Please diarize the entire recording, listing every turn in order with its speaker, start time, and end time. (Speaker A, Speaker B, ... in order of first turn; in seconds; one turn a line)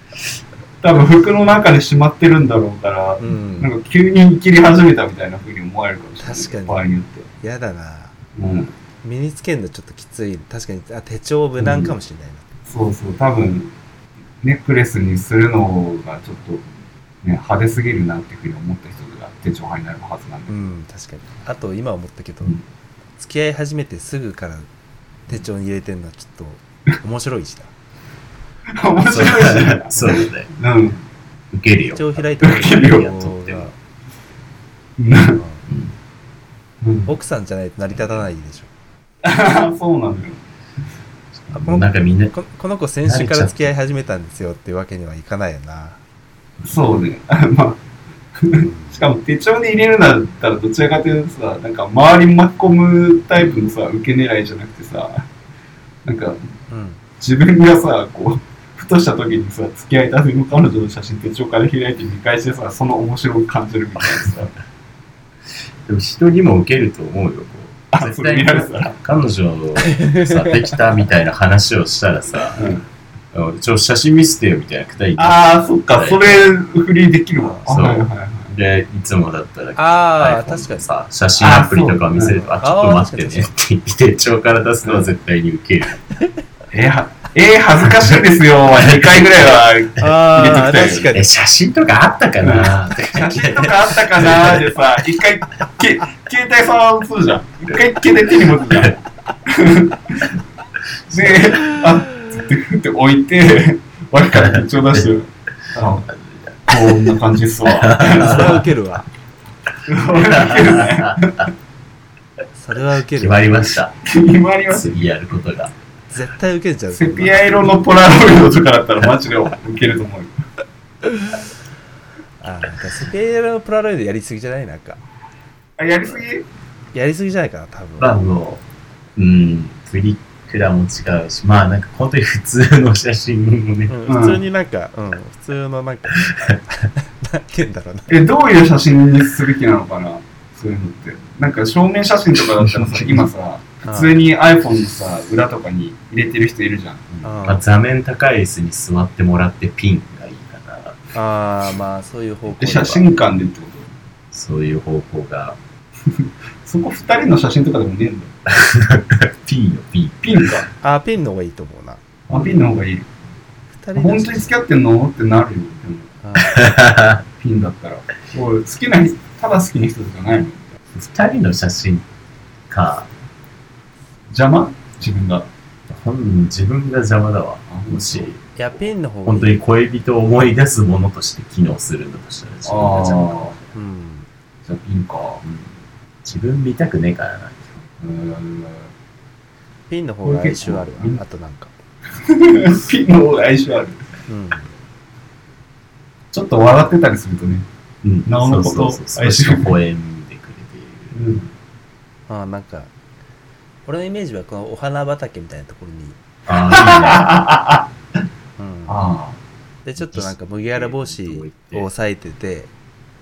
Speaker A: 0.8-7.3
Speaker B: 3.2-3.7
Speaker B: 6.2-6.8
Speaker B: 7.4-8.2
Speaker A: 8.4-8.8
Speaker B: 9.0-12.5
Speaker A: 11.6-11.9
Speaker A: 12.7-13.7
Speaker A: 14.4-16.6
Speaker A: 17.2-20.6
Speaker B: 20.5-22.6
Speaker B: 23.2-24.7
Speaker B: 25.3-27.7
Speaker A: 28.7-31.0
Speaker C: 29.1-30.5
Speaker C: 31.5-33.7
Speaker B: 31.9-33.7
Speaker A: 32.4-33.1
Speaker A: 35.0-35.4
Speaker B: 35.4-35.6
Speaker C: 35.7-36.0
Speaker A: 36.8-37.1
Speaker B: 37.1-38.7
Speaker A: 39.2-40.4
Speaker C: 41.4-42.3
Speaker B: 41.6-46.0
Speaker C: 43.0-43.7
Speaker A: 46.6-47.8
Speaker A: 48.4-55.3
Speaker B: 48.5-49.0
Speaker A: 56.0-56.5
Speaker B: 56.7-57.0
Speaker A: 57.2-64.5
Speaker C: 65.9-72.7
Speaker A: 67.9-69.0
Speaker B: 69.9-70.8
Speaker A: 72.6-72.8
Speaker C: 73.3-76.4
Speaker A: 75.2-78.5
Speaker C: 77.7-86.0
Speaker B: 79.8-80.9
Speaker A: 81.4-82.4
Speaker B: 82.4-83.5
Speaker A: 84.8-85.1
Speaker A: 86.7-91.1
Speaker B: 90.0-91.3
Speaker C: 91.1-94.7
Speaker A: 92.4-100.3
Speaker A: 101.1-106.1
Speaker C: 104.3-105.1
Speaker C: 106.0-107.1
Speaker A: 106.7-108.6
Speaker C: 107.7-108.6
Speaker B: 108.1-109.1
Speaker A: 109.9-111.5
Speaker C: 110.2-111.5
Speaker B: 112.6-113.7
Speaker C: 113.1-114.0
Speaker A: 114.0-115.0
Speaker C: 114.7-115.7
Speaker B: 116.1-117.6
Speaker A: 116.9-120.4
Speaker B: 122.4-125.0
Speaker A: 125.8-126.5
Speaker B: 126.9-128.2
Speaker C: 128.0-128.6
Speaker C: 129.2-133.9
Speaker B: 133.9-138.3
Speaker A: 134.1-134.4
Speaker C: 136.3-136.5
Speaker A: 138.1-147.2
Speaker B: 143.8-144.2
Speaker B: 147.2-147.7
Speaker C: 147.4-151.0
Speaker B: 151.1-153.1
Speaker A: 152.6-153.9
Speaker C: 154.3-155.6
Speaker A: 156.1-158.4
Speaker C: 158.5-160.3
Speaker A: 160.2-160.7
Speaker B: 160.8-162.0
Speaker A: 162.3-163.1
Speaker B: 163.8-164.5
Speaker A: 163.9-166.1
Speaker B: 166.2-166.7
Speaker C: 166.4-167.2
Speaker A: 167.4-170.8
Speaker C: 170.9-172.1
Speaker C: 172.7-173.1
Speaker A: 174.3-175.5
Speaker C: 175.9-178.5
Speaker A: 177.7-178.3
Speaker B: 178.6-179.6
Speaker C: 179.2-183.6
Speaker A: 182.7-183.6
Speaker B: 183.7-184.3
Speaker A: 184.7-185.4
Speaker C: 185.4-187.8
Speaker A: 188.0-188.9
Speaker B: 189.9-191.7
Speaker A: 190.2-191.2
Speaker A: 192.2-194.1
Speaker B: 194.3-194.7
Speaker A: 196.3-197.7
Speaker C: 198.0-201.2
Speaker A: 198.3-199.7
Speaker A: 201.1-201.5
Speaker B: 202.3-202.9
Speaker B: 203.9-206.2
Speaker C: 206.5-207.3
Speaker A: 206.7-207.9
Speaker B: 208.6-209.0
Speaker A: 208.9-209.4
Speaker B: 209.8-212.7
Speaker C: 210.0-211.9